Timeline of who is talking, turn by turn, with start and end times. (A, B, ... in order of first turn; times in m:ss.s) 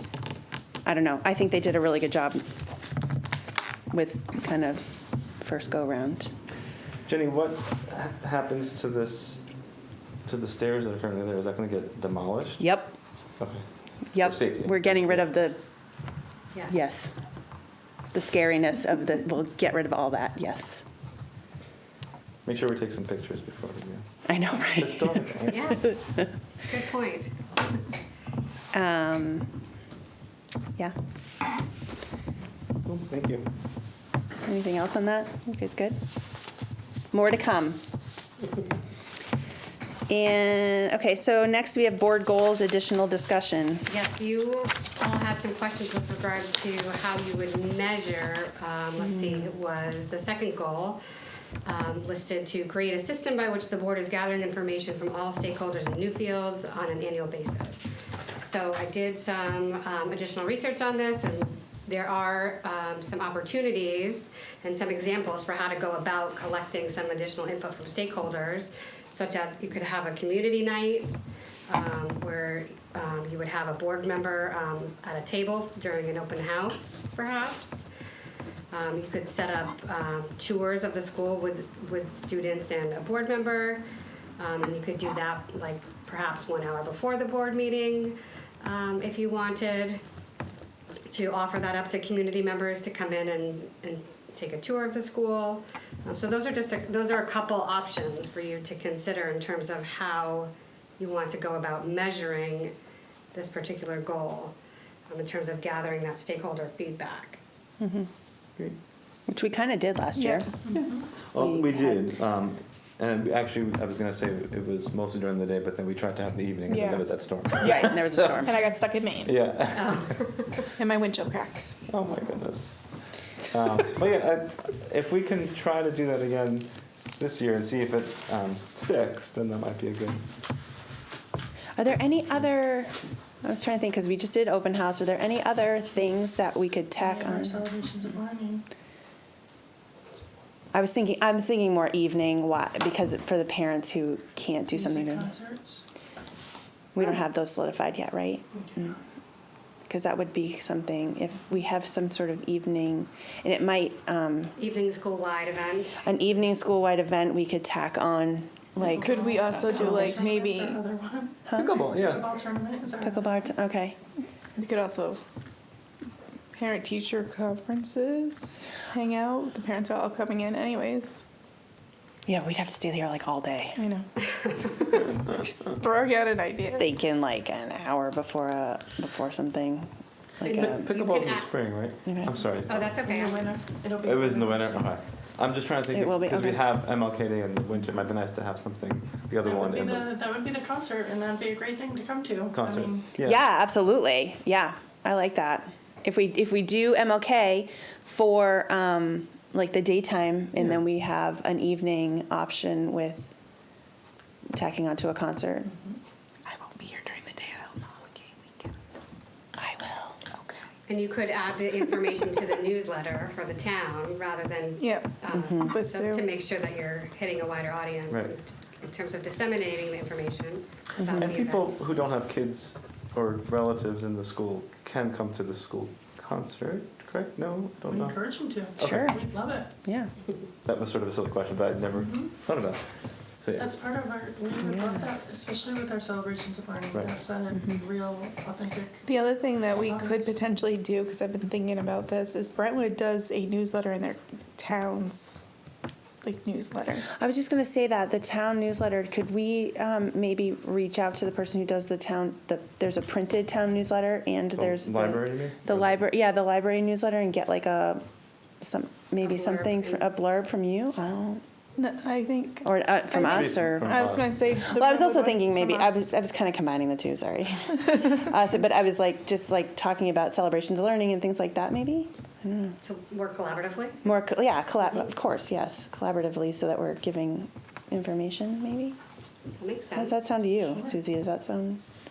0:00.8-0:02.4 A
0:03.9-0:04.8 A
0:05.4-0:06.3 A
0:07.0-0:09.4 B
0:10.2-0:12.6 B
0:12.6-0:12.9 A
0:13.4-0:13.6 B
0:14.1-0:15.6 A
0:14.1-0:15.3 B
0:16.7-0:17.1 A
0:18.1-0:20.8 A
0:22.4-0:24.0 B
0:24.3-0:25.2 A
0:24.6-0:25.8 B
0:25.5-0:26.0 C
0:26.6-0:27.3 C
0:28.7-0:29.5 A
0:32.8-0:33.5 B
0:34.4-0:36.0 A
0:37.1-0:37.8 A
0:40.1-0:43.9 A
0:43.9-0:51.0 C
0:49.0-0:49.5 A
0:51.6-0:57.9 C
0:58.4-1:17.9 C
1:18.7-1:23.8 C
1:24.4-1:30.0 C
1:31.1-1:42.7 C
1:43.3-1:44.5 C
1:45.1-1:47.4 C
1:47.8-1:48.1 A
1:49.3-1:50.8 A
1:50.2-1:50.5 D
1:51.3-1:58.5 B
1:51.3-1:52.1 A
1:56.7-1:57.0 D
1:57.6-1:59.4 D
1:57.6-1:58.6 A
1:59.2-2:00.2 B
1:59.7-2:00.6 C
2:00.8-2:01.7 D
2:01.9-2:02.7 B
2:03.4-2:10.2 B
2:11.8-2:17.7 A
2:17.0-2:18.6 E
2:20.7-2:25.3 A
2:24.7-2:25.8 E
2:26.9-2:29.0 A
2:28.5-2:28.9 E
2:29.9-2:34.5 A
2:34.6-2:36.0 C
2:36.0-2:40.2 A
2:38.8-2:43.5 E
2:39.0-2:40.8 D
2:41.5-2:41.7 A
2:41.6-2:42.2 B
2:43.0-2:44.0 A
2:44.6-2:45.2 D
2:46.5-2:51.2 D
2:52.2-2:53.8 A
2:53.8-2:54.1 D
2:54.4-2:55.0 C
2:55.3-2:56.8 D
2:56.8-2:59.9 A
3:00.4-3:00.9 A
3:00.4-3:01.5 C
3:00.5-3:02.9 B
3:02.1-3:02.3 A
3:02.7-3:03.5 C
3:02.9-3:04.9 E
3:04.0-3:10.1 B
3:05.9-3:06.7 A
3:09.4-3:13.1 E
3:12.5-3:13.4 B
3:13.2-3:23.2 A
3:24.5-3:25.7 A
3:26.5-3:28.7 D
3:29.6-3:30.2 A
3:30.9-3:41.8 C
3:34.8-3:36.3 D
3:35.3-3:35.7 A
3:41.2-3:48.2 B
3:47.8-3:49.7 E
3:48.7-3:49.2 B
3:48.8-3:50.1 A
3:50.6-3:52.9 B
3:51.9-3:52.3 E
3:53.4-3:53.7 B
3:53.6-3:59.1 E
3:54.6-3:55.0 A
3:57.5-3:57.8 A
3:59.0-4:05.4 D
3:59.6-4:00.3 E
4:06.2-4:07.0 D
4:07.2-4:18.0 A
4:14.5-4:16.0 B
4:18.6-4:21.4 A
4:19.2-4:20.0 C
4:21.8-4:26.1 D
4:22.6-4:24.0 A
4:23.2-4:24.4 B
4:24.7-4:32.7 A
4:32.8-4:34.0 C
4:34.0-4:39.0 A
4:39.6-4:40.2 C
4:39.9-4:41.8 A
4:40.6-4:41.0 E